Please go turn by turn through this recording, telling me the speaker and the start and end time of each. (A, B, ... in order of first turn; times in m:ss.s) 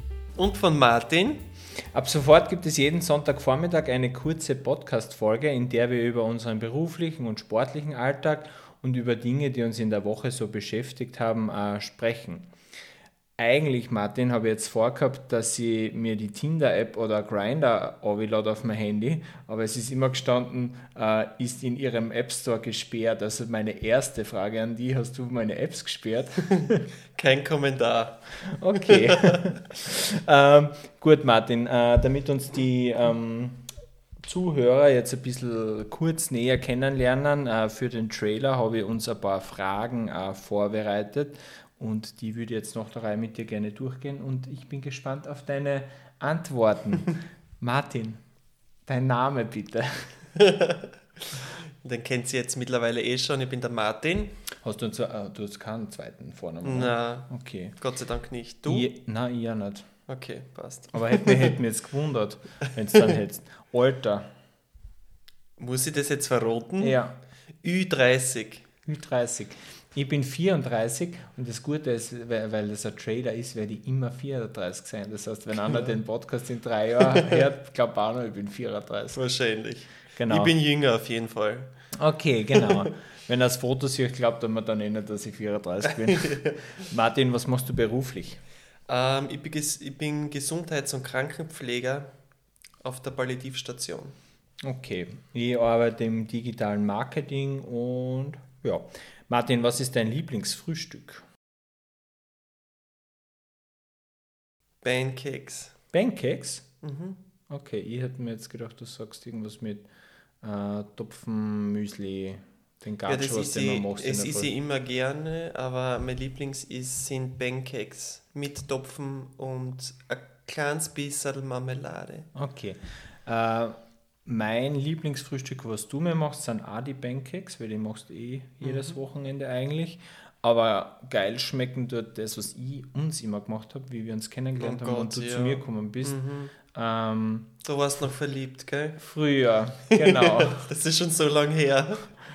0:00.4-0:01.5 A
0:01.9-0:12.5 B
0:13.4-0:26.8 B
0:27.1-0:29.4 A
0:28.5-0:33.6 B
0:34.2-0:48.2 B
0:48.9-0:50.1 B
0:50.4-0:54.3 A
0:54.6-0:57.8 B
0:56.6-0:58.9 A
0:58.7-0:59.8 B
1:00.1-1:01.5 A
1:00.9-1:04.3 B
1:05.6-1:07.0 A
1:06.8-1:07.1 B
1:07.6-1:08.7 A
1:08.9-1:19.2 B
1:15.7-1:15.9 A
1:17.1-1:17.4 A
1:19.1-1:21.7 A
1:20.2-1:20.6 B
1:22.0-1:28.4 B
1:25.9-1:26.6 A
1:28.9-1:32.1 A
1:32.8-1:34.2 A
1:34.6-1:41.2 B
1:44.8-1:45.7 A
1:45.9-1:46.7 B
1:46.8-1:47.2 A
1:47.5-1:49.9 B
1:50.4-1:54.5 B
1:53.1-2:02.3 A
2:02.4-2:17.5 B
2:08.6-2:09.0 A
2:14.6-2:16.5 A
2:17.6-2:19.0 A
2:19.0-2:20.6 B
2:19.9-2:22.1 A